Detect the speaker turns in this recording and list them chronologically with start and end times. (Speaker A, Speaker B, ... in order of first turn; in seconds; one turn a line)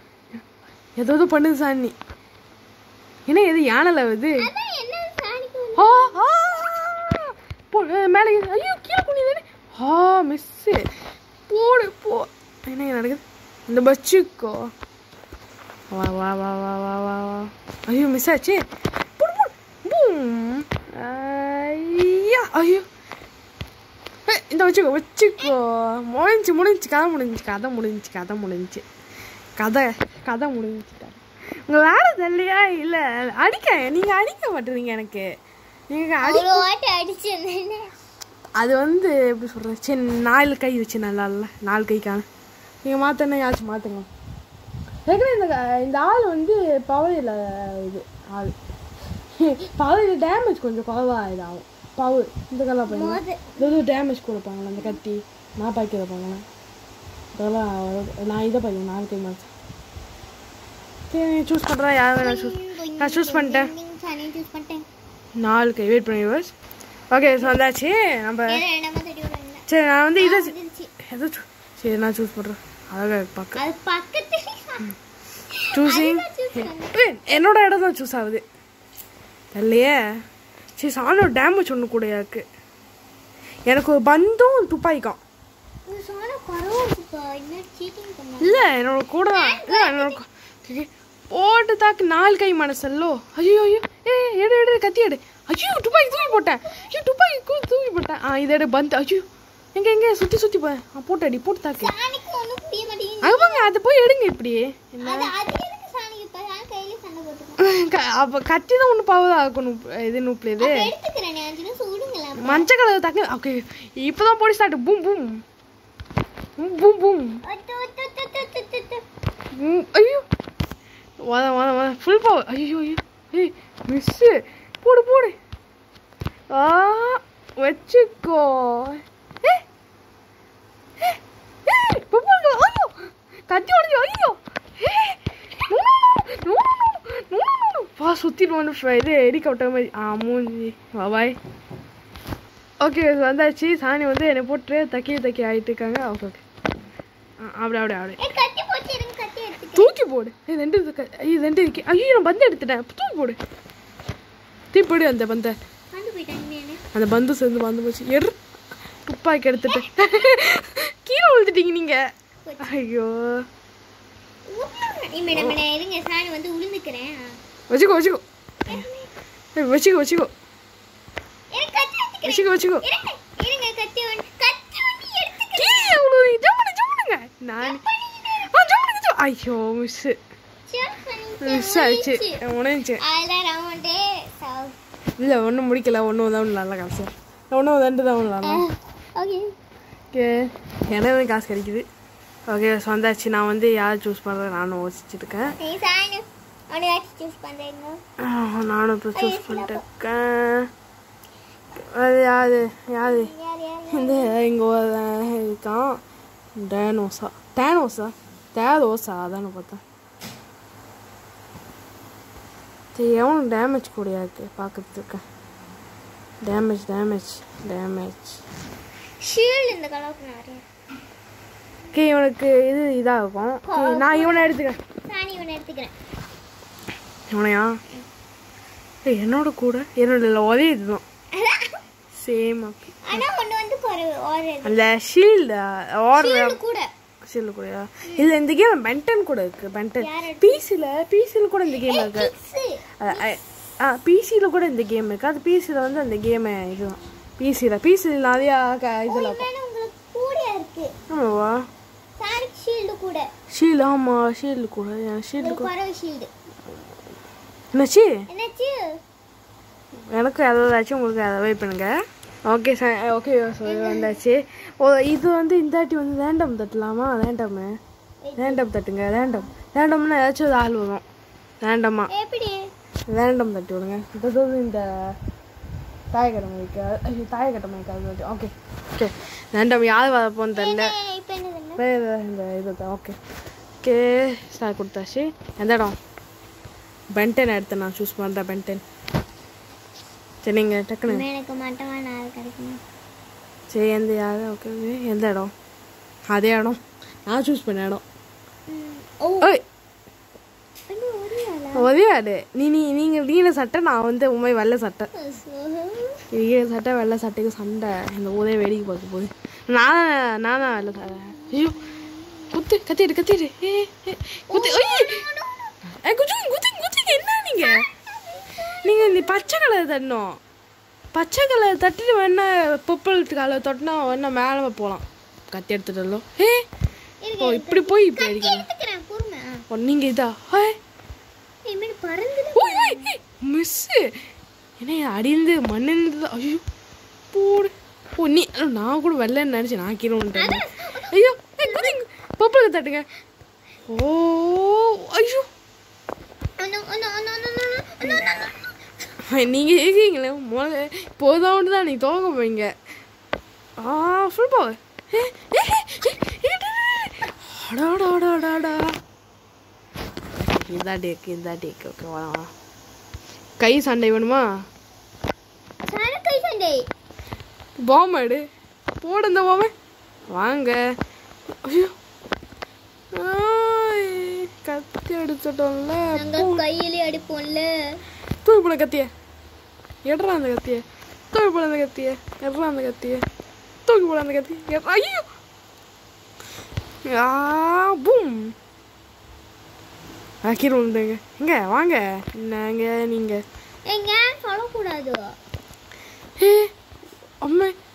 Speaker A: 1.0-1.9
Speaker A: 3.3-4.5
Speaker B: 4.4-6.2
Speaker A: 5.8-10.8
Speaker A: 11.5-14.7
Speaker A: 15.9-18.6
Speaker A: 19.2-22.8
Speaker A: 24.3-28.8
Speaker A: 29.6-35.2
Speaker A: 35.9-36.7
Speaker B: 36.2-37.9
Speaker A: 38.6-42.2
Speaker A: 42.8-44.1
Speaker A: 45.1-48.5
Speaker A: 49.4-56.4
Speaker B: 52.9-53.7
Speaker A: 57.3-59.5
Speaker A: 61.1-63.7
Speaker B: 62.2-64.8
Speaker A: 65.4-66.5
Speaker A: 67.1-68.6
Speaker B: 68.5-69.6
Speaker A: 69.7-70.5
Speaker B: 70.2-70.9
Speaker A: 71.0-73.6
Speaker B: 73.5-74.9
Speaker B: 75.6-77.0
Speaker A: 75.7-78.4
Speaker A: 79.5-80.0
Speaker A: 80.8-82.4
Speaker A: 83.7-85.2
Speaker B: 85.9-88.6
Speaker A: 88.4-99.2
Speaker B: 89.3-90.2
Speaker A: 99.7-101.9
Speaker B: 101.8-103.7
Speaker A: 103.2-105.3
Speaker B: 105.0-107.6
Speaker A: 107.6-110.9
Speaker B: 110.6-112.7
Speaker A: 112.4-115.4
Speaker A: 116.6-117.4
Speaker B: 117.5-119.0
Speaker A: 119.6-120.2
Speaker A: 121.3-125.3
Speaker A: 126.5-129.6
Speaker A: 131.0-141.3
Speaker A: 142.8-146.4
Speaker A: 147.4-148.2
Speaker B: 148.2-149.9
Speaker A: 149.7-153.4
Speaker A: 154.7-155.5
Speaker B: 155.9-156.8
Speaker A: 156.9-158.3
Speaker A: 159.1-162.0
Speaker B: 159.7-160.3
Speaker B: 162.4-162.8
Speaker A: 162.6-163.3
Speaker B: 164.5-167.4
Speaker A: 165.3-165.6
Speaker A: 167.7-168.8
Speaker B: 168.7-169.1
Speaker A: 169.6-170.3
Speaker B: 171.5-176.0
Speaker A: 172.2-172.8
Speaker A: 175.5-177.8
Speaker B: 177.6-178.5
Speaker A: 178.5-180.1
Speaker B: 180.7-182.4
Speaker A: 181.4-183.0
Speaker B: 183.0-184.8
Speaker A: 185.2-188.6
Speaker B: 188.4-189.5
Speaker A: 190.1-191.8
Speaker A: 192.5-195.5
Speaker B: 195.6-198.0
Speaker A: 198.2-200.7
Speaker B: 199.1-199.8
Speaker A: 201.9-203.3
Speaker B: 203.0-204.3
Speaker A: 203.9-206.0
Speaker A: 206.6-209.8
Speaker A: 212.9-215.2
Speaker A: 216.4-218.4
Speaker B: 219.2-220.6
Speaker A: 221.9-224.8
Speaker B: 223.6-224.5
Speaker B: 225.1-225.9
Speaker A: 227.3-227.7
Speaker A: 229.1-231.0
Speaker B: 231.4-231.8
Speaker A: 232.2-233.3
Speaker B: 233.1-234.8
Speaker A: 234.6-236.6
Speaker B: 236.2-236.9
Speaker A: 237.2-242.3
Speaker B: 240.0-240.6
Speaker B: 241.8-243.4
Speaker A: 243.0-249.4
Speaker B: 249.1-250.9
Speaker A: 251.1-251.6
Speaker B: 252.2-253.3
Speaker A: 253.5-255.7
Speaker B: 255.4-256.3
Speaker A: 257.7-258.1
Speaker B: 258.3-258.8
Speaker A: 260.1-261.9
Speaker A: 262.5-267.8
Speaker B: 263.6-264.2
Speaker B: 268.2-268.7
Speaker A: 268.4-271.0
Speaker B: 269.2-269.5
Speaker A: 271.6-272.1
Speaker B: 272.1-272.6
Speaker A: 273.1-274.9
Speaker A: 276.1-280.9
Speaker B: 280.5-281.8
Speaker A: 281.8-283.1
Speaker A: 283.8-285.9
Speaker A: 287.1-288.8
Speaker A: 290.4-291.2
Speaker B: 291.1-292.8
Speaker A: 293.7-295.5
Speaker A: 296.3-298.0
Speaker B: 298.7-299.5
Speaker B: 300.9-301.9
Speaker A: 301.7-305.1
Speaker B: 305.1-306.2
Speaker A: 306.3-311.8
Speaker A: 312.5-315.2
Speaker B: 314.5-315.7
Speaker A: 316.0-317.8
Speaker B: 317.6-319.6
Speaker A: 318.8-320.4
Speaker A: 321.1-326.6
Speaker B: 327.2-329.6
Speaker A: 327.4-328.7
Speaker A: 329.7-330.7
Speaker B: 331.7-333.1
Speaker A: 332.6-334.1
Speaker A: 334.8-336.6
Speaker A: 337.3-343.0
Speaker B: 340.4-342.0
Speaker A: 343.9-345.4
Speaker B: 346.6-348.6
Speaker A: 349.3-352.7
Speaker A: 353.8-358.9
Speaker A: 360.4-362.5
Speaker A: 363.6-364.4
Speaker B: 365.9-366.8
Speaker A: 367.9-368.4
Speaker A: 369.0-369.7
Speaker A: 370.3-370.8
Speaker A: 371.6-371.9
Speaker A: 373.2-376.6
Speaker B: 376.1-377.7
Speaker A: 378.4-379.1
Speaker A: 380.0-383.2
Speaker A: 383.9-385.2
Speaker A: 387.1-388.5
Speaker A: 390.4-393.4
Speaker B: 393.9-395.2
Speaker A: 396.4-396.7
Speaker A: 397.4-397.7